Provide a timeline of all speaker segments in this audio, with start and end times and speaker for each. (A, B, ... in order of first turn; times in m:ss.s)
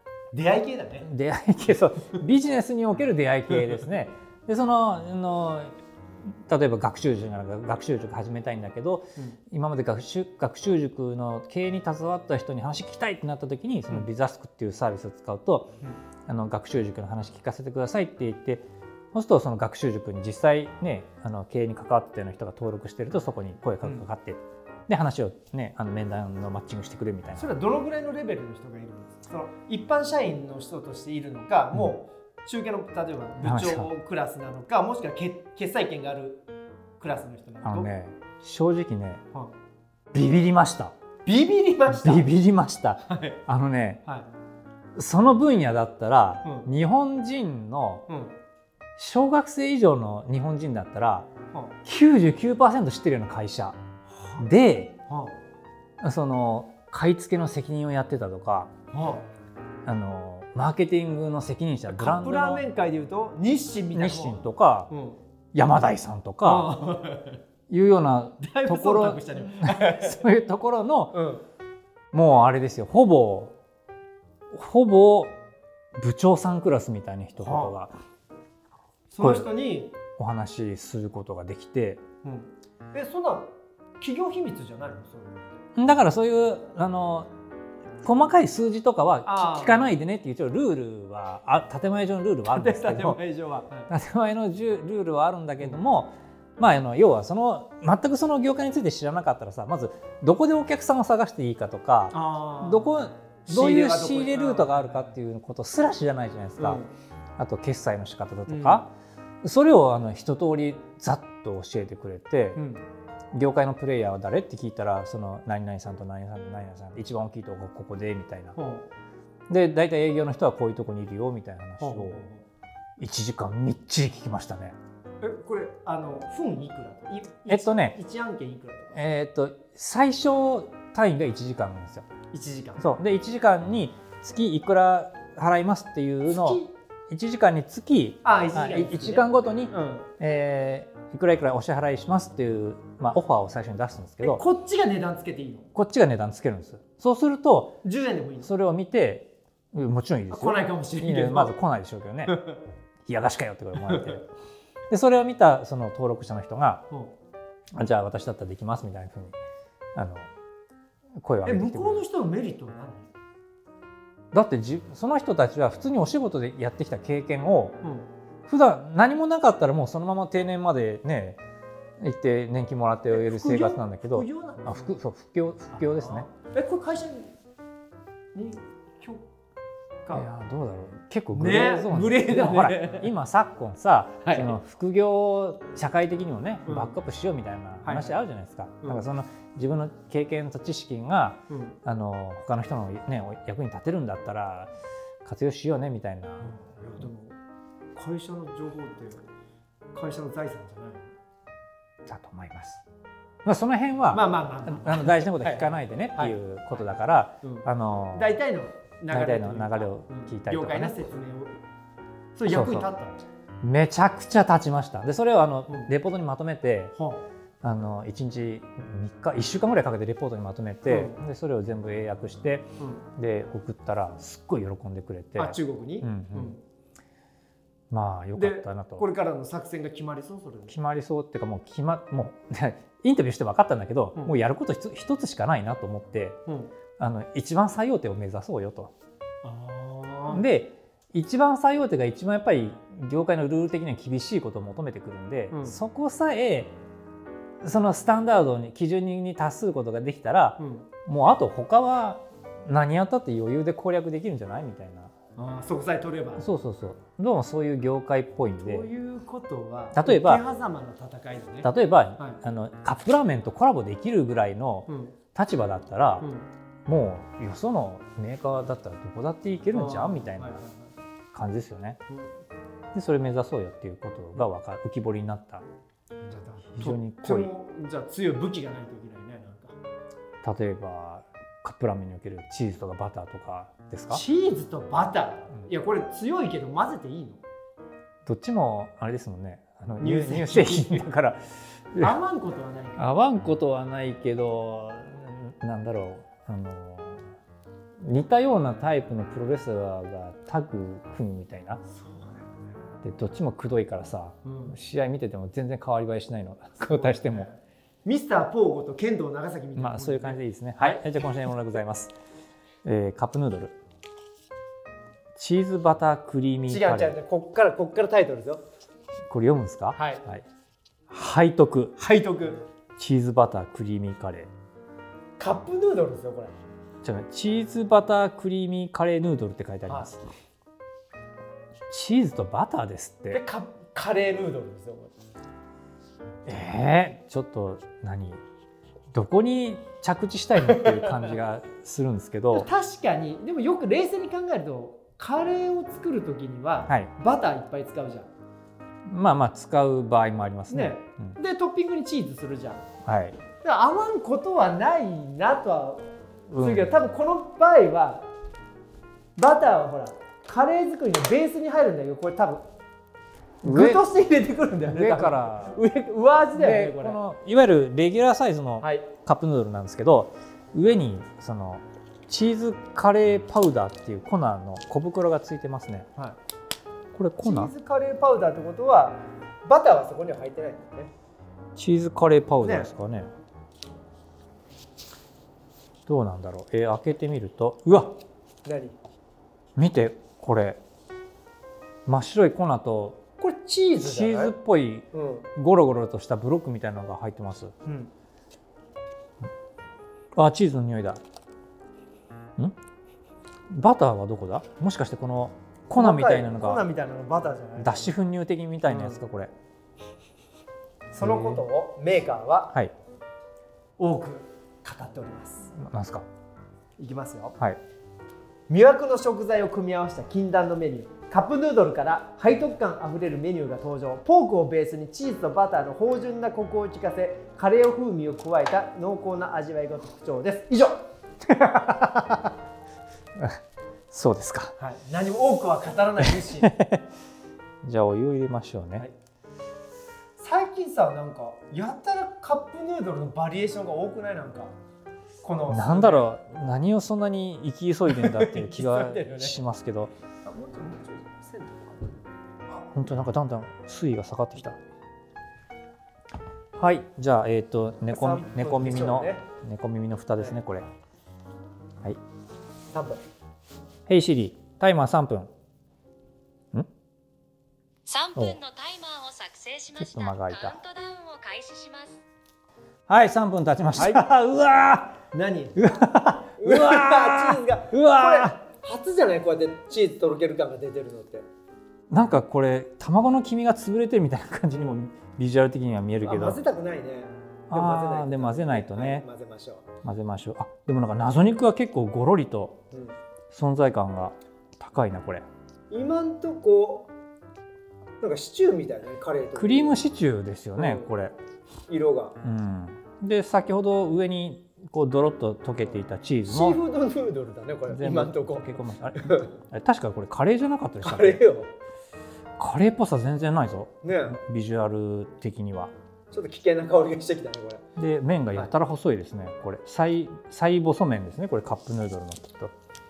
0:00.3-0:01.1 A
0:01.0-0:15.8 B
0:16.3-0:27.5 B
0:27.4-0:36.4 A
0:33.4-0:33.9 B
0:37.0-0:37.9 A
0:37.6-0:39.2 B
0:40.1-0:40.9 B
0:41.2-0:42.3 A
0:41.9-0:44.0 B
0:43.0-0:43.4 A
0:44.9-0:48.1 B
0:46.4-0:46.7 A
0:48.1-0:48.3 A
0:49.0-0:51.3 B
0:51.8-0:53.8 B
0:54.1-0:54.5 A
0:54.4-0:54.9 B
0:55.1-0:55.4 A
0:56.0-0:58.7 B
0:58.9-0:59.3 A
0:59.8-1:02.6 B
1:01.9-1:05.2 A
1:03.9-1:04.9 B
1:05.5-1:06.7 B
1:06.4-1:07.4 A
1:07.7-1:11.2 B
1:08.4-1:10.2 A
1:11.1-1:11.4 A
1:12.1-1:13.5 B
1:14.5-1:15.3 B
1:15.9-1:17.9 B
1:17.4-1:17.7 A
1:19.1-1:19.9 A
1:19.2-1:19.5 B
1:20.1-1:22.0 B
1:22.2-1:25.6 A
1:25.8-1:27.3 B
1:28.0-1:33.2 B
1:29.2-1:30.0 A
1:32.5-1:33.9 A
1:33.9-1:46.8 B
1:42.1-1:42.9 A
1:43.5-1:45.1 A
1:46.6-1:46.9 A
1:47.4-1:52.6 B
1:48.5-1:48.8 A
1:52.5-1:52.8 A
1:53.3-1:58.6 B
1:58.6-1:58.8 A
1:59.5-2:02.2 B
2:01.8-2:02.4 A
2:03.0-2:04.8 B
2:05.2-2:09.0 A
2:07.5-2:08.0 B
2:08.9-2:12.1 B
2:12.3-2:12.8 A
2:12.8-2:24.4 B
2:16.3-2:16.7 A
2:18.2-2:20.1 A
2:24.2-2:25.7 A
2:25.7-2:27.8 B
2:27.8-2:28.5 A
2:28.4-2:32.4 B
2:30.3-2:31.6 A
2:32.2-2:32.6 A
2:33.0-2:34.3 B
2:33.8-2:34.2 A
2:34.9-2:36.9 B
2:37.7-2:39.4 B
2:39.9-2:40.3 B
2:41.2-2:42.0 B
2:41.4-2:43.1 A
2:44.3-2:47.8 B
2:47.8-2:48.1 A
2:48.4-2:51.4 B
2:52.0-2:56.2 B
2:53.1-2:55.0 A
2:55.7-2:57.3 A
2:58.3-2:59.2 A
3:00.1-3:14.7 B
3:01.3-3:03.1 A
3:04.2-3:04.6 A
3:06.6-3:07.0 A
3:07.8-3:08.1 A
3:11.5-3:11.8 A
3:15.2-3:16.5 B
3:16.4-3:17.4 A
3:17.9-3:19.2 A
3:19.9-3:21.1 A
3:22.0-3:22.8 B
3:23.4-3:28.4 B
3:24.1-3:26.4 A
3:27.4-3:31.6 A
3:29.1-3:31.0 B
3:32.4-3:33.2 A
3:32.5-3:32.9 B
3:33.6-3:36.9 B
3:36.9-3:37.2 A
3:37.6-3:46.6 B
3:40.9-3:41.2 A
3:42.8-3:43.0 A
3:45.4-3:46.6 A
3:47.9-3:49.0 B
3:48.3-3:50.8 A
3:50.7-3:56.4 B
3:56.5-3:56.7 A
3:57.0-3:58.9 B
3:59.4-4:00.5 A
4:00.3-4:06.8 B
4:05.5-4:05.8 A
4:07.6-4:15.1 B
4:10.6-4:10.9 A
4:15.4-4:16.4 A
4:16.4-4:18.9 B
4:18.6-4:22.4 A
4:19.9-4:20.4 B
4:21.6-4:26.3 B
4:24.9-4:25.1 A
4:26.2-4:26.5 A
4:26.8-4:30.6 B
4:29.7-4:30.9 A
4:31.3-4:32.0 B
4:32.9-4:35.6 B
4:36.2-4:39.8 A
4:36.8-4:37.5 B
4:40.4-4:44.2 B
4:44.1-4:47.4 A
4:48.2-4:52.2 B
4:50.0-4:51.0 A
4:52.0-4:53.1 A
4:53.0-4:57.3 B
4:58.0-5:01.8 B
5:01.9-5:02.7 A
5:03.0-5:07.5 B
5:04.4-5:04.8 A
5:06.8-5:11.0 A
5:09.8-5:12.1 B
5:12.8-5:13.8 B
5:15.4-5:17.2 B
5:16.7-5:18.6 A
5:19.3-5:20.4 B
5:19.9-5:20.2 A
5:21.1-5:22.0 B
5:22.0-5:22.6 A
5:23.0-5:24.5 B
5:25.4-5:26.5 A
5:27.0-5:30.2 B
5:31.9-5:33.4 B
5:33.3-5:35.1 A
5:36.4-5:38.4 B
5:39.1-5:42.7 B
5:40.6-5:41.3 A
5:42.5-5:48.3 A
5:49.0-5:51.4 B
5:50.7-5:52.8 A
5:53.0-5:53.4 B
5:53.6-5:58.3 A
5:56.5-5:56.9 B
5:59.4-6:02.6 A
6:03.6-6:04.0 B
6:03.6-6:07.2 A
6:04.9-6:05.8 B
6:06.5-6:16.1 B
6:08.8-6:09.1 A
6:17.1-6:17.7 B
6:17.4-6:21.1 A
6:21.8-6:23.3 B
6:22.6-6:22.9 A
6:26.1-6:28.2 B
6:28.6-6:29.0 A
6:29.8-6:30.8 B
6:32.0-6:33.2 B
6:33.4-6:34.5 A
6:34.0-6:37.7 B
6:35.1-6:35.5 A
6:37.8-6:38.1 A
6:40.3-6:41.2 B
6:43.7-6:46.8 B
6:45.9-6:48.1 A
6:47.8-6:49.5 B
6:48.8-6:49.2 A
6:51.1-6:51.6 B
6:51.1-6:52.7 A
6:54.0-6:55.7 A
6:55.7-6:56.2 B
6:57.0-6:57.6 A
6:58.7-7:11.0 A
7:11.5-7:12.4 B
7:14.1-7:14.7 B
7:14.8-7:16.7 A
7:16.4-7:17.1 B
7:17.8-7:19.0 B
7:20.4-7:24.7 A
7:25.4-7:26.3 A
7:25.7-7:30.1 B
7:28.1-7:29.6 A
7:30.4-7:32.2 A
7:32.7-7:34.8 B
7:36.8-7:40.9 B
7:38.1-7:39.4 A
7:42.9-7:43.2 A
7:44.1-7:45.5 B
7:48.1-7:52.2 C
7:50.0-7:50.8 B
7:53.1-7:55.2 B
7:54.0-7:54.2 A
7:55.3-7:56.0 A
7:55.8-7:58.6 B
7:56.6-8:01.4 A
8:02.1-8:06.6 B
8:06.2-8:09.8 A
8:07.7-8:09.2 B
8:10.0-8:12.8 B
8:12.9-8:13.2 A
8:13.5-8:15.4 B
8:15.9-8:17.1 A
8:18.2-8:20.0 A
8:19.6-8:21.3 B
8:20.8-8:21.1 A
8:21.9-8:22.4 A
8:22.4-8:26.8 B
8:26.5-8:29.5 A
8:27.9-8:31.4 B
8:31.0-8:31.7 A
8:32.6-8:35.9 B
8:34.0-8:34.4 A
8:36.3-8:37.8 A
8:38.0-8:42.7 B